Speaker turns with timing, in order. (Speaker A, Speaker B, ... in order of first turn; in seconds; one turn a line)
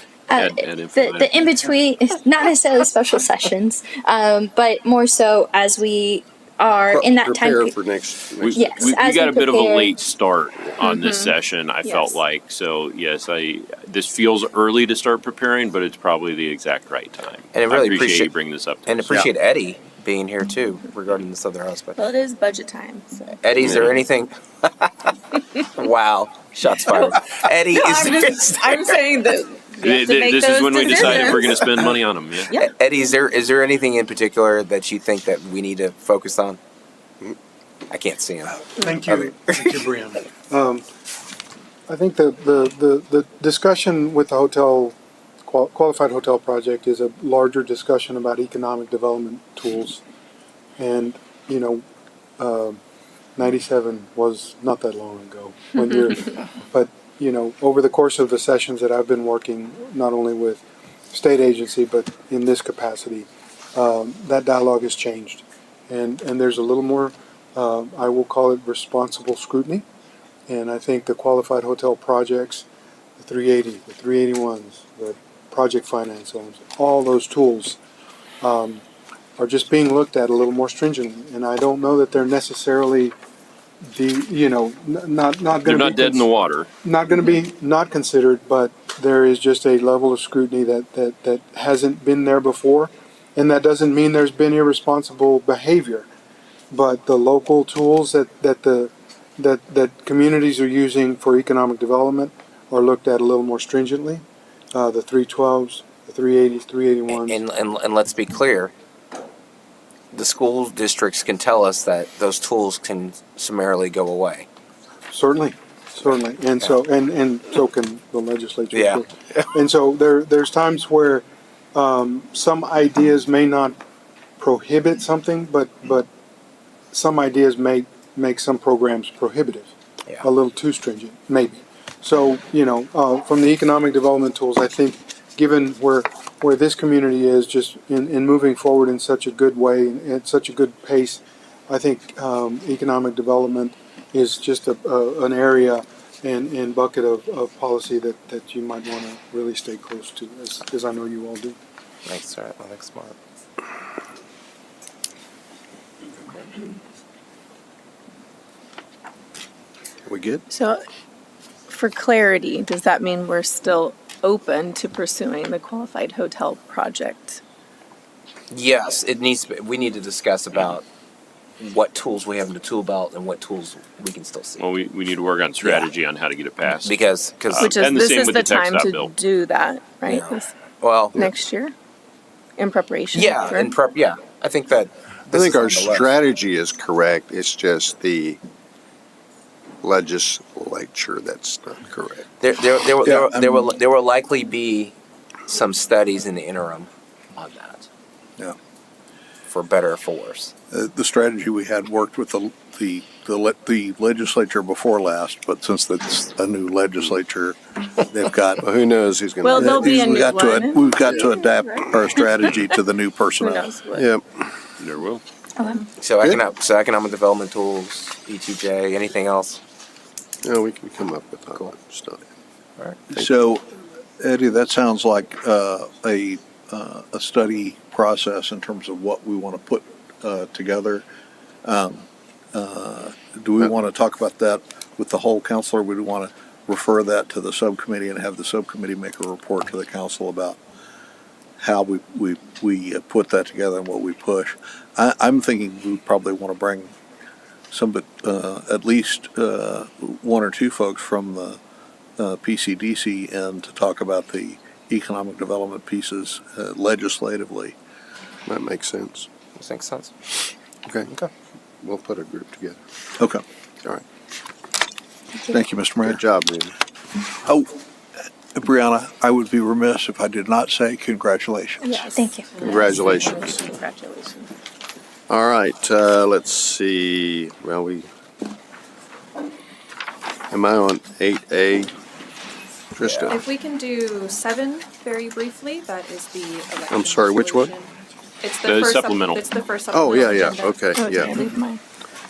Speaker A: 0.3-7.8
Speaker B: 0.3-1.4
Speaker C: 6.9-8.9
Speaker B: 8.4-19.3
Speaker A: 8.5-9.9
Speaker D: 10.8-12.2
Speaker E: 17.5-18.3
Speaker E: 18.9-22.1
Speaker D: 21.9-23.4
Speaker E: 23.4-28.9
Speaker B: 23.6-24.0
Speaker D: 26.9-31.9
Speaker B: 29.8-32.5
Speaker E: 32.5-36.6
Speaker E: 37.9-39.9
Speaker F: 38.8-40.9
Speaker F: 41.9-50.0
Speaker F: 50.8-51.8
Speaker F: 52.4-52.8
Speaker F: 53.4-69.8
Speaker F: 70.5-72.6
Speaker F: 73.2-77.8
Speaker F: 78.4-78.8
Speaker F: 79.4-83.1
Speaker F: 83.8-86.3
Speaker B: 85.6-86.7
Speaker F: 86.8-96.1
Speaker F: 96.7-107.4
Speaker E: 107.1-108.7
Speaker E: 110.1-114.5
Speaker F: 115.1-123.8
Speaker E: 118.7-119.4
Speaker F: 124.4-126.1
Speaker F: 126.9-129.7
Speaker F: 130.2-151.6
Speaker E: 152.1-153.2
Speaker C: 160.1-160.4
Speaker D: 160.5-160.8
Speaker D: 161.7-167.4
Speaker E: 168.5-170.8
Speaker E: 171.6-174.6
Speaker B: 174.6-179.1
Speaker E: 175.6-175.9
Speaker E: 176.8-177.7
Speaker D: 177.5-180.5
Speaker E: 180.1-181.3
Speaker D: 181.1-181.7
Speaker D: 182.6-183.7
Speaker E: 183.1-186.2
Speaker C: 185.3-188.4
Speaker C: 189.8-192.3
Speaker E: 192.4-194.9
Speaker G: 193.0-193.6
Speaker E: 195.5-197.9
Speaker E: 199.5-200.5
Speaker G: 200.7-208.6
Speaker C: 208.6-209.9
Speaker D: 209.4-212.7
Speaker G: 209.6-213.7
Speaker D: 213.4-214.1
Speaker C: 213.9-214.4
Speaker B: 214.8-215.2
Speaker E: 216.0-219.6
Speaker C: 220.4-222.2
Speaker G: 223.1-223.7
Speaker G: 224.2-231.1
Speaker G: 231.6-240.6
Speaker G: 241.6-246.9
Speaker G: 247.7-251.6
Speaker G: 252.2-257.8
Speaker C: 258.4-259.3
Speaker E: 259.6-260.1
Speaker C: 260.9-261.1
Speaker C: 261.8-262.8
Speaker G: 265.5-266.2
Speaker C: 266.0-266.7
Speaker G: 267.4-267.7
Speaker G: 268.5-272.0
Speaker D: 271.8-274.5
Speaker A: 272.0-272.6
Speaker C: 272.6-273.6
Speaker C: 275.3-278.1
Speaker C: 280.5-281.9
Speaker C: 282.9-283.4
Speaker H: 283.2-291.3
Speaker C: 286.9-287.8
Speaker B: 288.6-289.4
Speaker C: 289.9-291.4
Speaker D: 290.9-291.8